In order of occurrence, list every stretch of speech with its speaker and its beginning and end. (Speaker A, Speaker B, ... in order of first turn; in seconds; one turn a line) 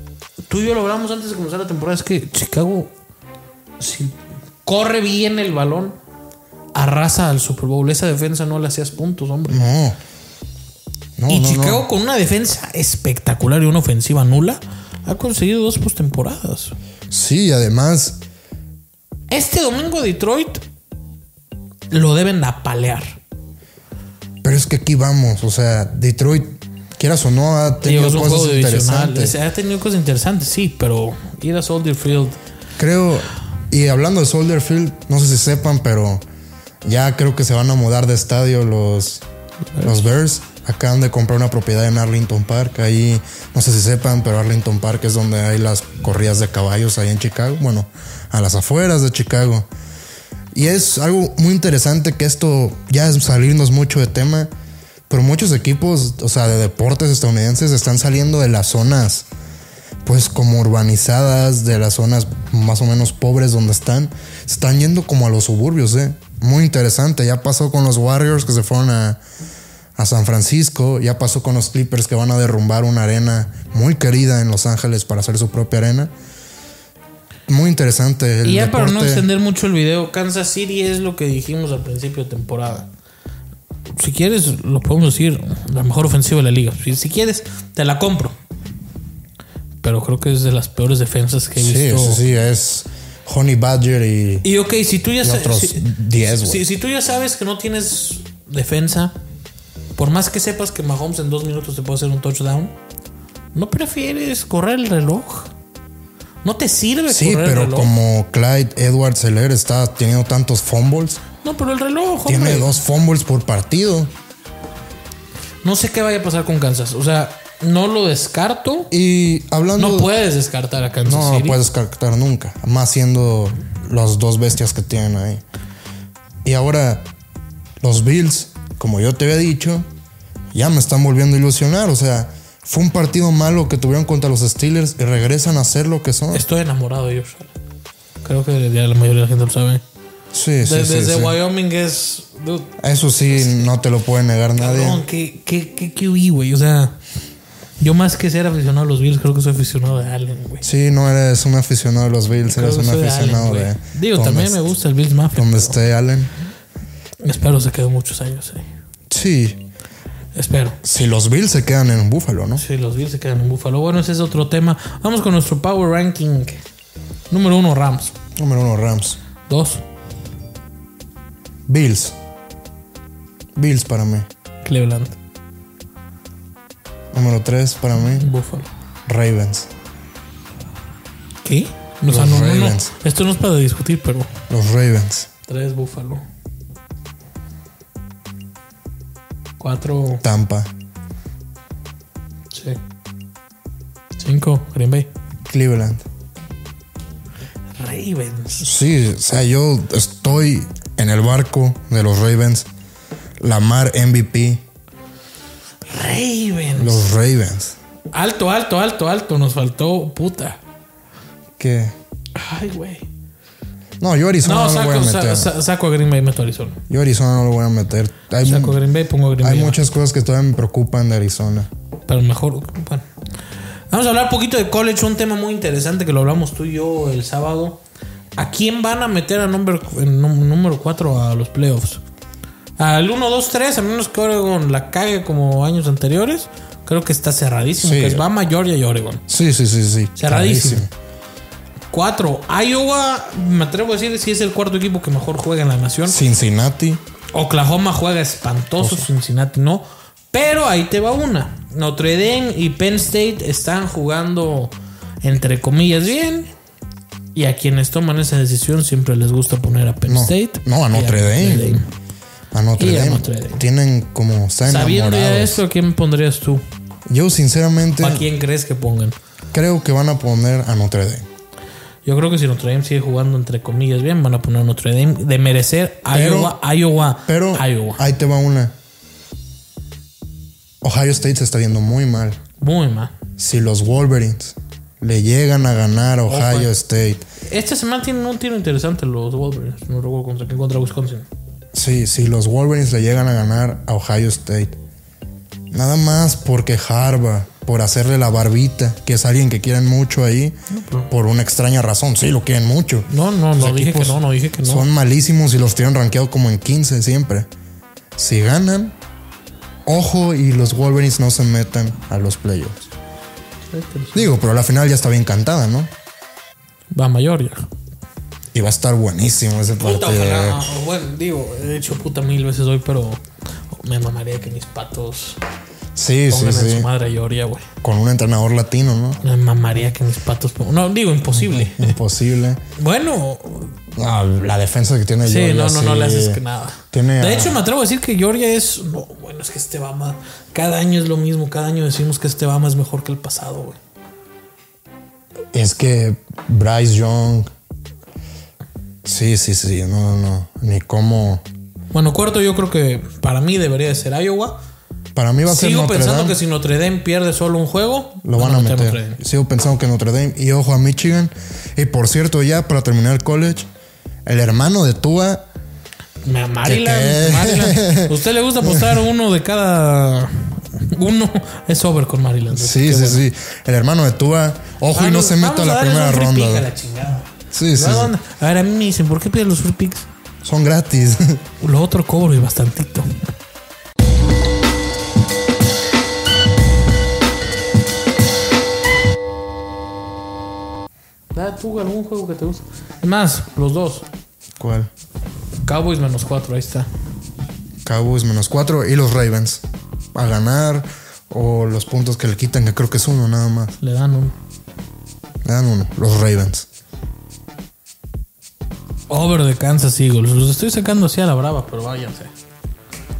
Speaker A: 0.5-2.9
Speaker A: 3.8-6.0
Speaker A: 6.7-9.7
Speaker B: 9.5-10.0
Speaker B: 11.2-11.8
Speaker A: 11.3-16.8
Speaker B: 17.1-18.2
Speaker A: 19.3-20.6
Speaker A: 21.9-23.2
Speaker B: 24.4-29.3
Speaker A: 27.8-32.4
Speaker B: 32.8-36.2
Speaker B: 36.8-39.2
Speaker B: 39.8-49.7
Speaker B: 50.5-54.5
Speaker B: 55.1-59.3
Speaker B: 60.0-69.2
Speaker B: 70.0-76.1
Speaker B: 77.5-79.2
Speaker A: 78.4-82.9
Speaker A: 83.9-88.4
Speaker A: 89.8-92.2
Speaker B: 91.5-94.5
Speaker A: 94.4-99.2
Speaker B: 95.2-96.6
Speaker A: 100.0-102.7
Speaker A: 103.5-105.5
Speaker A: 106.4-107.9
Speaker B: 107.1-111.2
Speaker A: 111.4-112.7
Speaker B: 112.2-114.1
Speaker A: 115.6-118.9
Speaker B: 118.9-120.1
Speaker A: 119.8-121.6
Speaker B: 121.0-125.4
Speaker B: 126.4-127.1
Speaker B: 127.8-129.8
Speaker B: 130.5-136.4
Speaker A: 136.3-137.5
Speaker A: 138.2-139.8
Speaker B: 140.3-141.3
Speaker A: 140.6-142.8
Speaker B: 142.8-145.0
Speaker A: 143.3-143.7
Speaker A: 144.6-147.0
Speaker A: 147.8-150.6
Speaker B: 150.6-154.6
Speaker A: 152.5-155.8
Speaker B: 155.3-156.3
Speaker A: 157.2-158.7
Speaker B: 159.1-159.6
Speaker A: 160.3-160.8
Speaker B: 160.8-162.6
Speaker A: 162.6-166.6
Speaker A: 167.3-168.1
Speaker B: 168.3-169.2
Speaker A: 169.5-169.8
Speaker B: 171.7-172.2
Speaker B: 173.6-174.3
Speaker A: 174.6-175.2
Speaker B: 177.1-178.3
Speaker A: 178.1-178.7
Speaker B: 179.1-179.7
Speaker A: 181.4-184.3
Speaker B: 182.1-182.9
Speaker B: 184.5-185.3
Speaker A: 185.4-186.2
Speaker A: 189.6-190.2
Speaker B: 190.2-190.7
Speaker A: 192.5-192.8
Speaker A: 194.2-195.1
Speaker B: 195.4-196.1
Speaker A: 197.8-198.7
Speaker B: 198.6-202.7
Speaker B: 203.4-204.6
Speaker A: 205.9-207.1
Speaker B: 206.7-207.8
Speaker A: 208.1-210.6
Speaker B: 211.6-211.9
Speaker A: 212.3-213.1
Speaker B: 214.0-215.5
Speaker A: 214.4-216.8
Speaker B: 216.9-218.8
Speaker A: 218.4-219.8
Speaker B: 219.4-221.7
Speaker A: 222.1-223.1
Speaker A: 223.9-227.8
Speaker A: 228.4-232.0
Speaker A: 232.8-239.2
Speaker B: 237.8-238.3
Speaker B: 239.3-240.9
Speaker A: 240.2-240.9
Speaker A: 241.9-246.2
Speaker B: 246.1-247.0
Speaker A: 247.3-256.5
Speaker B: 248.8-249.1
Speaker A: 257.3-261.8
Speaker B: 260.1-261.8
Speaker B: 262.5-265.6
Speaker A: 262.8-263.6
Speaker A: 264.7-266.6
Speaker B: 267.1-268.2
Speaker A: 268.0-269.1
Speaker B: 269.5-271.3
Speaker A: 272.0-278.0
Speaker B: 276.1-276.6
Speaker B: 277.3-278.7
Speaker B: 280.8-282.4
Speaker A: 282.6-283.1
Speaker B: 283.4-287.2
Speaker A: 286.3-286.7
Speaker A: 287.5-291.3
Speaker B: 291.7-294.7
Speaker B: 295.7-300.6
Speaker A: 300.7-301.1
Speaker B: 301.1-307.5
Speaker A: 303.1-304.9
Speaker B: 308.2-308.9
Speaker B: 309.9-312.9
Speaker A: 313.7-314.3
Speaker B: 314.1-315.9
Speaker A: 316.9-317.6
Speaker B: 318.5-320.6
Speaker A: 319.8-325.4
Speaker B: 325.9-326.9
Speaker A: 326.3-327.7
Speaker B: 327.8-329.2
Speaker A: 329.2-332.0
Speaker B: 331.3-332.6
Speaker A: 332.8-333.7
Speaker B: 333.9-336.4
Speaker A: 335.2-343.8
Speaker B: 336.9-337.6
Speaker B: 345.5-347.5
Speaker B: 349.0-351.4
Speaker A: 351.9-354.6
Speaker B: 355.1-356.4
Speaker A: 355.4-359.2
Speaker B: 358.2-363.7
Speaker B: 364.2-365.4
Speaker A: 366.2-373.2
Speaker B: 366.6-369.0
Speaker B: 372.5-376.6
Speaker A: 374.9-380.1
Speaker B: 377.5-378.1
Speaker B: 380.4-381.4
Speaker A: 381.6-383.2
Speaker A: 391.3-394.1
Speaker B: 394.6-394.9
Speaker A: 395.6-396.9
Speaker B: 397.8-399.6
Speaker B: 400.1-403.8
Speaker A: 403.8-404.3
Speaker B: 405.4-406.6
Speaker A: 409.1-412.3